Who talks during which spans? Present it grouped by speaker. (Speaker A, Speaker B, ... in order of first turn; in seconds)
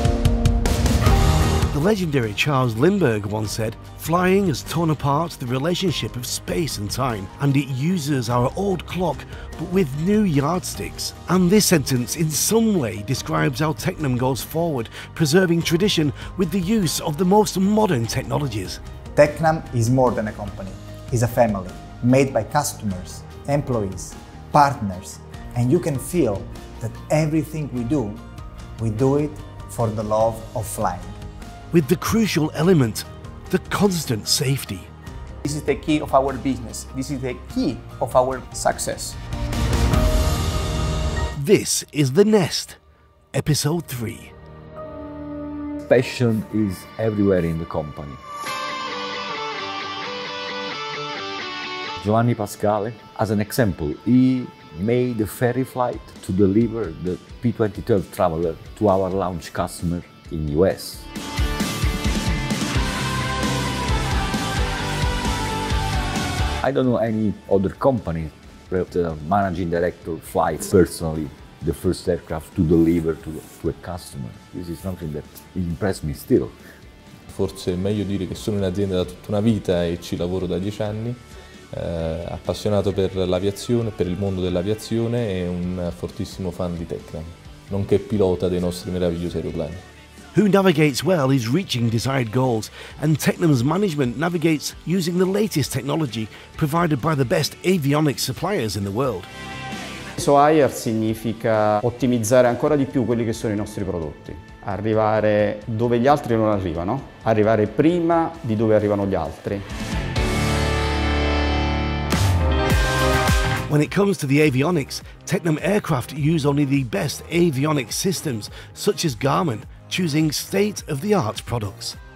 Speaker A: 1.7-18.8, 31.7-34.9, 41.4-42.8, 43.3-44.3, 90.3-99.3, 113.7-122.0
Speaker B: 19.1-28.2, 28.8-31.2
Speaker C: 35.4-39.2
Speaker D: 45.9-48.2, 52.0-61.1, 66.6-76.5
Speaker E: 77.3-81.2, 81.7-89.8
Speaker F: 100.2-109.7